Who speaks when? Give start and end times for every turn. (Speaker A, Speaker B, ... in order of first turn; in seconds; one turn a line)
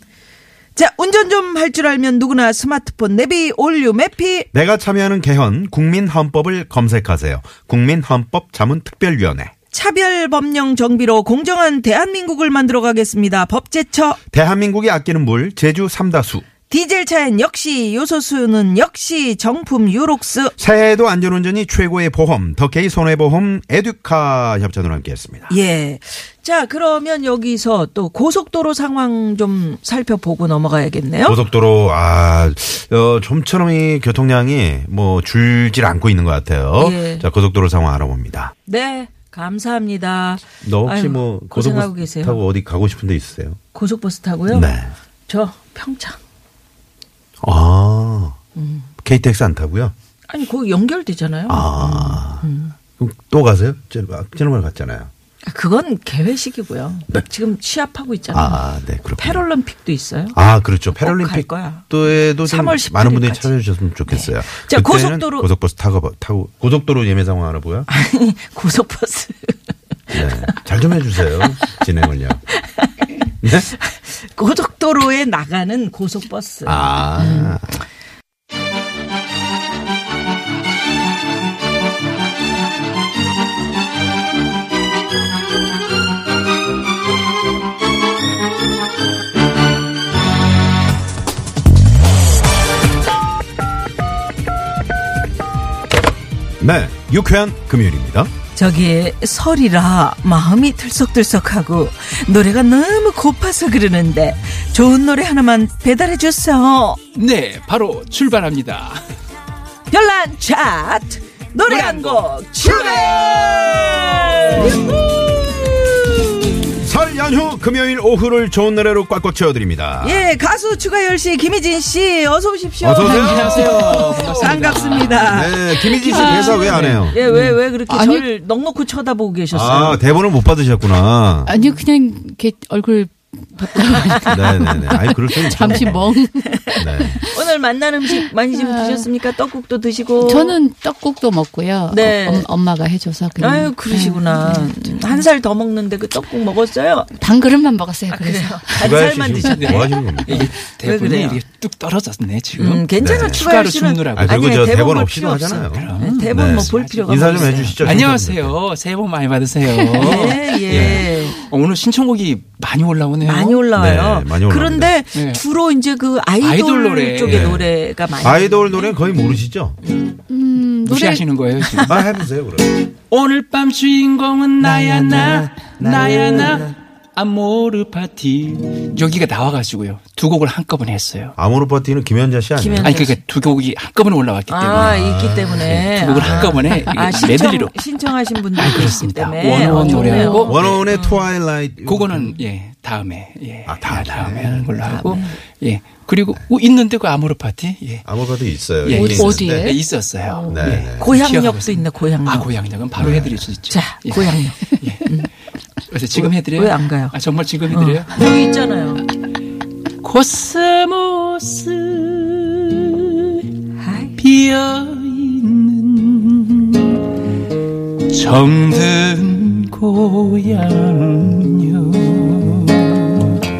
Speaker A: 0.8-4.5
Speaker B: 4.5-9.5
Speaker A: 9.7-14.2
Speaker B: 14.3-16.4
Speaker A: 16.7-20.5
Speaker B: 20.6-25.5
Speaker A: 25.5-31.4
Speaker B: 31.2-38.5
Speaker A: 36.8-37.2
Speaker A: 38.7-42.4
Speaker B: 40.6-43.6
Speaker A: 43.7-44.7
Speaker B: 44.5-44.9
Speaker A: 45.3-46.2
Speaker B: 47.4-48.4
Speaker A: 48.6-48.9
Speaker B: 49.0-49.9
Speaker A: 50.3-52.8
Speaker B: 51.5-52.4
Speaker B: 53.0-55.1
Speaker A: 55.4-58.6
Speaker B: 58.3-59.4
Speaker A: 59.2-60.4
Speaker B: 60.3-67.9
Speaker A: 61.0-61.8
Speaker A: 62.4-63.5
Speaker A: 64.1-65.5
Speaker A: 67.9-69.5
Speaker A: 70.1-70.5
Speaker B: 70.1-72.4
Speaker B: 73.4-73.7
Speaker A: 73.8-76.9
Speaker B: 76.6-77.8
Speaker C: 77.2-77.5
Speaker B: 96.6-98.3
Speaker A: 98.5-107.0
Speaker D: 107.1-109.0
Speaker A: 109.9-115.8
Speaker D: 111.7-112.3
Speaker B: 112.6-115.0
Speaker B: 116.6-120.3
Speaker A: 120.0-130.0
Speaker B: 122.8-127.2
Speaker D: 123.0-125.5
Speaker C: 126.1-128.3
Speaker D: 126.2-127.5
Speaker B: 129.5-131.5
Speaker C: 131.4-137.3
Speaker A: 133.8-134.1
Speaker B: 134.2-136.2
Speaker A: 135.6-135.9
Speaker A: 136.5-140.6
Speaker B: 136.8-137.2
Speaker C: 138.1-139.1
Speaker C: 140.2-145.2
Speaker A: 141.9-142.5
Speaker A: 143.4-147.1
Speaker C: 147.2-148.9
Speaker A: 148.1-151.4
Speaker B: 148.7-150.5
Speaker D: 149.5-154.6
Speaker A: 152.6-158.0
Speaker B: 153.0-153.5
Speaker B: 154.1-158.6
Speaker D: 155.6-163.7
Speaker A: 159.9-161.4
Speaker B: 160.7-161.1
Speaker A: 163.2-168.9
Speaker B: 163.8-164.9
Speaker D: 165.1-165.4
Speaker D: 166.4-167.6
Speaker B: 167.2-169.8
Speaker C: 170.3-171.2
Speaker D: 170.8-172.1
Speaker B: 171.9-172.7
Speaker D: 173.1-181.4
Speaker A: 175.3-176.7
Speaker B: 175.8-176.1
Speaker B: 181.4-183.0
Speaker A: 182.6-183.2
Speaker D: 182.8-190.9
Speaker A: 184.5-191.3
Speaker B: 184.7-186.8
Speaker C: 189.5-190.5
Speaker B: 190.3-192.4
Speaker D: 191.8-198.1
Speaker B: 193.7-195.2
Speaker A: 194.9-195.4
Speaker B: 198.1-199.8
Speaker D: 198.8-205.3
Speaker C: 198.9-200.7
Speaker B: 200.5-201.1
Speaker A: 201.0-202.5
Speaker B: 203.0-203.4
Speaker A: 203.7-205.3
Speaker D: 205.9-208.2
Speaker A: 206.2-207.2
Speaker A: 207.7-209.1
Speaker D: 210.0-213.5
Speaker A: 213.8-214.1
Speaker D: 214.2-217.0
Speaker D: 218.1-223.1